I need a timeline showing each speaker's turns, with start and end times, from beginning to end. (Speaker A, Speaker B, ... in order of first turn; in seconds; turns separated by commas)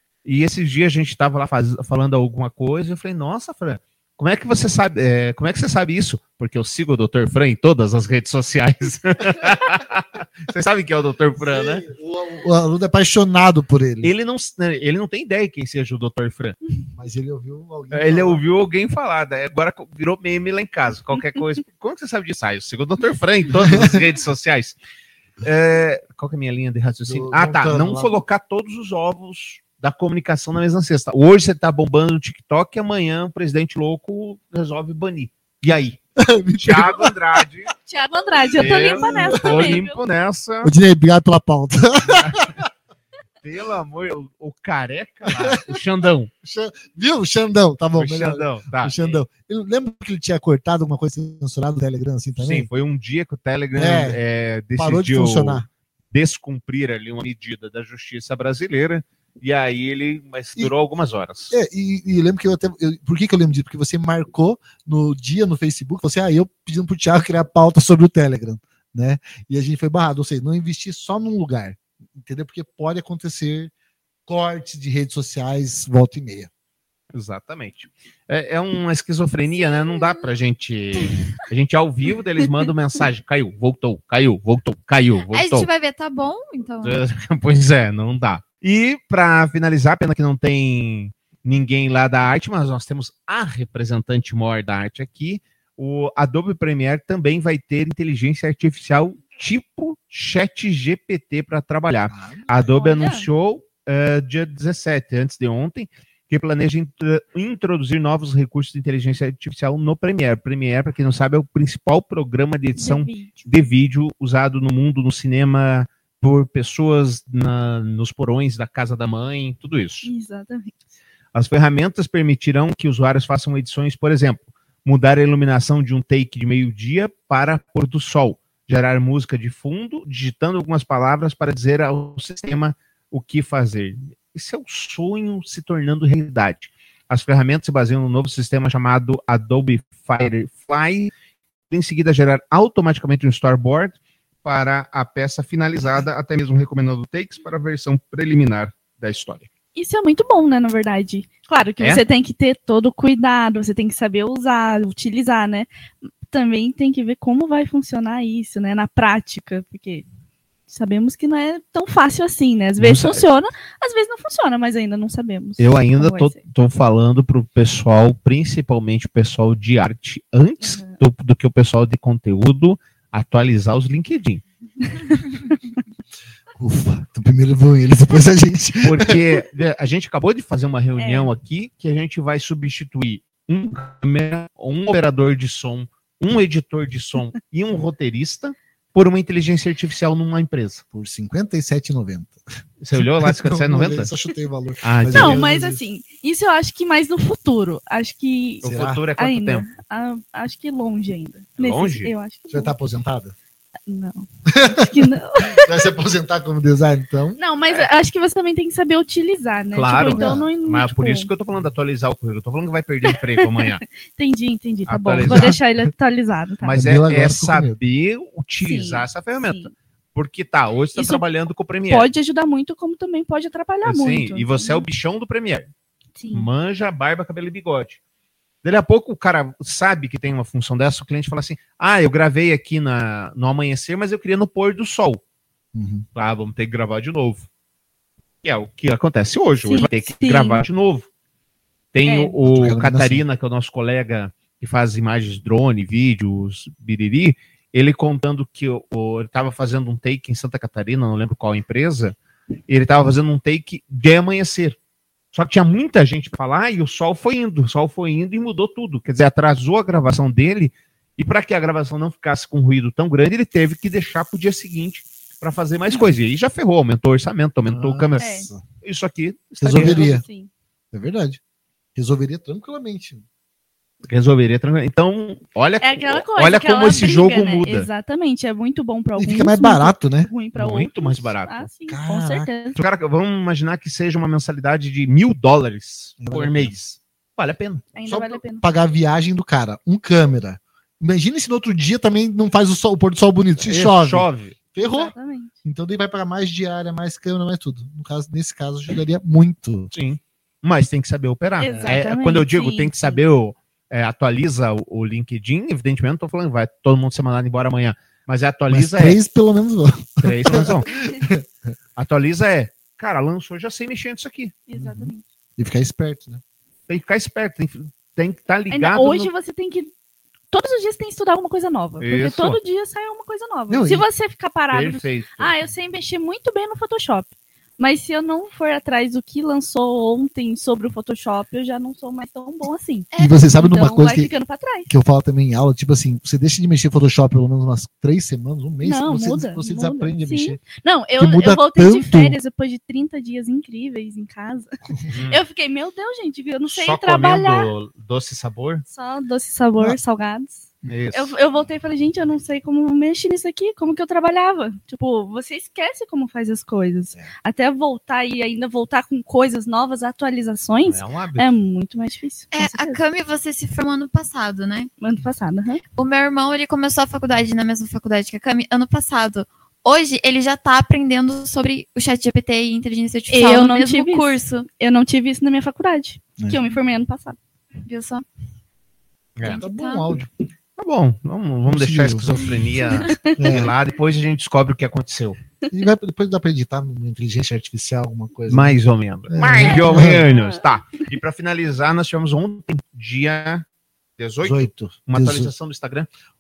Speaker A: 0.2-11.9, Speaker B: 11.4-14.1, Speaker A: 14.0-16.6, Speaker B: 16.9-18.4, Speaker A: 17.9-24.8, Speaker B: 23.6-24.0, Speaker A: 25.4-36.0, Speaker B: 27.1-28.2, Speaker B: 36.2-37.2, Speaker A: 36.6-37.7, Speaker C: 37.9-40.0, Speaker A: 38.6-40.7, Speaker B: 38.6-39.8, Speaker B: 40.6-42.7, Speaker A: 42.1-42.5, Speaker A: 43.4-46.3, Speaker B: 45.3-45.8, Speaker B: 46.4-52.7, Speaker A: 48.0-49.2, Speaker A: 52.4-61.5, Speaker B: 53.8-54.2, Speaker B: 54.8-55.7, Speaker B: 61.5-73.7, Speaker B: 74.3-76.5, Speaker A: 77.1-85.7, Speaker D: 79.6-80.2, Speaker D: 85.3-87.0, Speaker A: 86.8-120.1, Speaker B: 102.1-102.5, Speaker C: 102.6-103.3, Speaker C: 112.8-113.5, Speaker C: 120.0-120.8, Speaker A: 121.3-141.1, Speaker A: 141.7-149.5, Speaker C: 149.8-155.7, Speaker C: 156.2-160.1, Speaker C: 160.7-166.4, Speaker A: 162.8-163.2, Speaker A: 165.6-174.4, Speaker C: 170.6-171.0, Speaker B: 176.6-179.2, Speaker A: 178.8-190.8, Speaker C: 181.0-181.3, Speaker B: 190.9-192.4, Speaker A: 192.8-194.1, Speaker B: 192.9-195.8, Speaker A: 194.8-195.4, Speaker C: 195.1-198.6, Speaker B: 198.6-199.0, Speaker A: 198.6-199.7, Speaker C: 199.2-202.7, Speaker A: 201.6-202.1, Speaker B: 202.5-203.3, Speaker C: 203.9-205.8, Speaker B: 204.5-207.4, Speaker C: 207.4-211.3, Speaker A: 209.7-213.8, Speaker B: 210.1-210.5, Speaker C: 213.1-216.8, Speaker A: 214.9-215.6, Speaker B: 215.3-215.6, Speaker A: 216.6-222.1, Speaker B: 216.7-217.8, Speaker C: 218.6-219.7, Speaker C: 220.9-221.2, Speaker C: 221.9-224.9, Speaker A: 223.8-225.7, Speaker C: 226.2-226.5, Speaker A: 226.3-228.0, Speaker A: 228.6-235.2, Speaker B: 235.7-236.1, Speaker A: 236.2-237.5, Speaker A: 238.4-241.1, Speaker C: 239.6-240.6, Speaker A: 241.9-252.2, Speaker C: 242.1-242.4, Speaker B: 242.4-243.2, Speaker A: 252.7-254.8, Speaker A: 255.3-268.2, Speaker B: 267.7-268.6, Speaker C: 268.2-268.5, Speaker A: 268.8-270.1, Speaker B: 269.6-270.2, Speaker C: 269.6-270.5, Speaker B: 270.9-271.4, Speaker B: 271.9-273.2, Speaker A: 274.0-277.9, Speaker C: 275.8-282.8, Speaker B: 279.2-280.3, Speaker A: 280.6-281.7, Speaker B: 281.9-282.5, Speaker A: 282.8-287.9, Speaker B: 286.2-286.7, Speaker C: 287.9-288.6, Speaker B: 288.1-299.9, Speaker A: 293.6-294.6, Speaker C: 294.8-295.6, Speaker A: 299.9-309.2, Speaker C: 301.6-303.2, Speaker B: 301.7-302.0, Speaker B: 308.7-311.7, Speaker A: 310.2-310.9, Speaker A: 312.0-314.5, Speaker C: 314.7-315.3, Speaker B: 314.7-316.4, Speaker A: 316.9-319.3, Speaker C: 318.7-319.9, Speaker C: 320.5-334.9, Speaker A: 322.0-322.6, Speaker B: 323.7-324.1, Speaker A: 324.7-325.6, Speaker D: 333.1-333.5, Speaker B: 333.2-334.3, Speaker B: 334.9-340.6, Speaker C: 338.8-347.7, Speaker B: 341.2-342.4, Speaker A: 345.1-345.4, Speaker A: 346.7-348.9, Speaker C: 348.9-363.0, Speaker A: 350.9-351.3, Speaker A: 360.9-361.5, Speaker D: 362.5-364.9, Speaker C: 365.0-365.8, Speaker D: 366.0-374.7, Speaker C: 373.3-377.4, Speaker B: 376.4-376.7, Speaker D: 377.9-378.2, Speaker A: 379.4-379.6, Speaker D: 379.4-380.2, Speaker B: 379.6-380.3, Speaker A: 380.8-385.4, Speaker B: 381.7-382.4, Speaker C: 382.9-383.7, Speaker B: 383.4-383.7, Speaker B: 385.7-388.8, Speaker A: 388.5-393.6, Speaker B: 389.3-390.3, Speaker C: 389.6-390.6, Speaker A: 394.2-396.1, Speaker B: 394.4-395.5